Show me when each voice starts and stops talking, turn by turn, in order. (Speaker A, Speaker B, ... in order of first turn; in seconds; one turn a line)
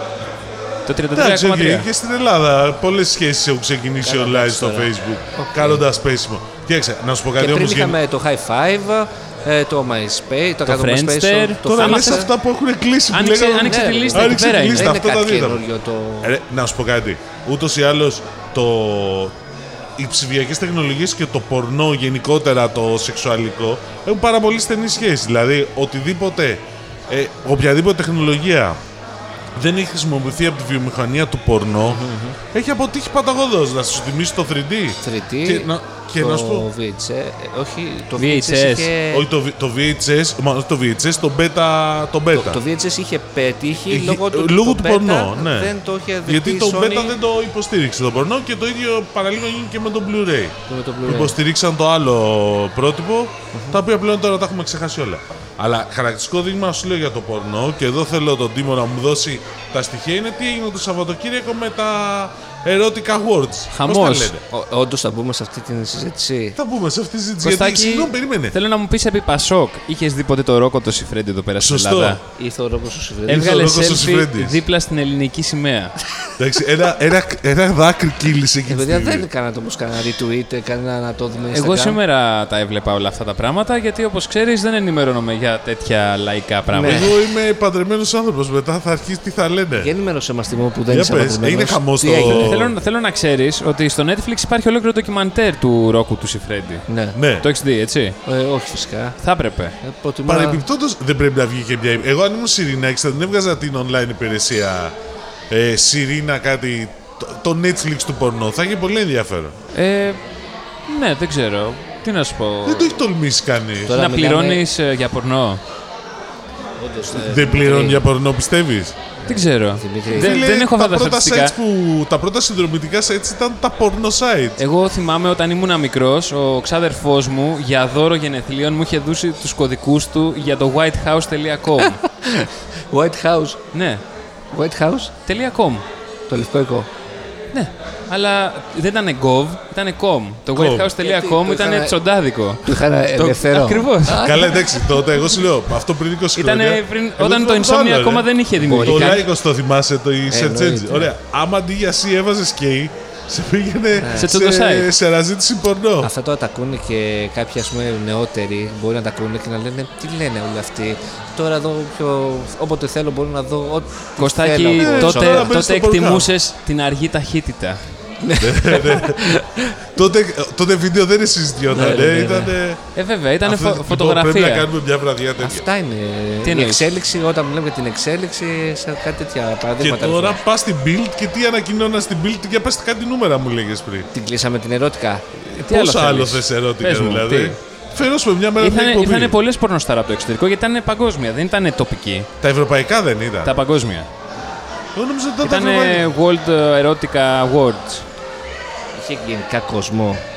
Speaker A: 0.8-1.9
Speaker B: 1.1-8.0
Speaker C: 4.0-5.8
Speaker C: 7.4-12.3
Speaker A: 10.7-12.3
Speaker B: 11.7-15.6
Speaker A: 13.1-14.9
Speaker C: 13.6-16.3
Speaker B: 16.2-19.3
Speaker B: 20.0-28.8
Speaker B: 29.6-36.7
Speaker C: 31.9-32.4
Speaker C: 35.0-39.3
Speaker A: 38.2-38.9
Speaker B: 39.1-42.6
Speaker C: 42.3-47.2
Speaker B: 43.9-45.7
Speaker B: 46.2-64.4
Speaker C: 50.7-51.4
Speaker C: 53.5-53.8
Speaker A: 63.7-64.3
Speaker C: 64.5-66.6
Speaker B: 66.5-68.5
Speaker A: 67.4-72.2
Speaker B: 71.6-72.2
Speaker C: 72.3-73.6
Speaker B: 73.3-74.6
Speaker A: 73.3-76.0
Speaker B: 76.4-79.2
Speaker C: 78.7-82.0
Speaker A: 81.5-87.1
Speaker C: 86.7-87.1
Speaker B: 86.8-89.9
Speaker C: 89.8-92.5
Speaker B: 90.9-92.7
Speaker A: 92.2-96.8
Speaker C: 96.9-97.2
Speaker B: 97.1-97.5
Speaker A: 97.4-98.2
Speaker C: 98.2-99.2
Speaker A: 99.2-99.7
Speaker C: 99.8-100.6
Speaker B: 100.2-104.9
Speaker B: 105.5-109.5
Speaker A: 109.7-110.2
Speaker A: 110.9-112.9
Speaker B: 112.6-114.0
Speaker C: 113.9-114.6
Speaker A: 113.9-115.6
Speaker C: 116.8-118.1
Speaker B: 117.1-119.0
Speaker C: 119.2-120.4
Speaker A: 119.3-121.5
Speaker B: 120.1-124.6
Speaker A: 124.6-132.0
Speaker C: 131.8-133.6
Speaker A: 133.7-134.0
Speaker C: 134.5-135.1
Speaker A: 135.2-135.8
Speaker C: 136.3-136.9
Speaker A: 137.5-144.4
Speaker B: 140.5-140.9
Speaker C: 141.0-141.9
Speaker C: 142.6-145.0
Speaker B: 144.2-156.1
Speaker A: 146.3-149.2
Speaker C: 148.6-149.2
Speaker C: 150.3-151.1
Speaker C: 154.0-154.3
Speaker A: 154.1-154.9
Speaker C: 156.0-165.5
Speaker A: 164.2-167.8
Speaker B: 164.8-166.3
Speaker C: 168.2-169.8
Speaker B: 168.4-172.8
Speaker C: 171.7-172.5
Speaker A: 172.9-174.7
Speaker B: 173.4-175.7
Speaker C: 175.4-180.4
Speaker A: 176.4-176.9
Speaker B: 179.8-184.1
Speaker C: 184.1-185.2
Speaker B: 185.5-189.3
Speaker A: 185.7-187.6
Speaker A: 188.6-192.3
Speaker B: 192.4-193.5
Speaker A: 193.4-194.1
Speaker B: 194.9-196.1
Speaker A: 195.4-198.0
Speaker C: 198.9-200.2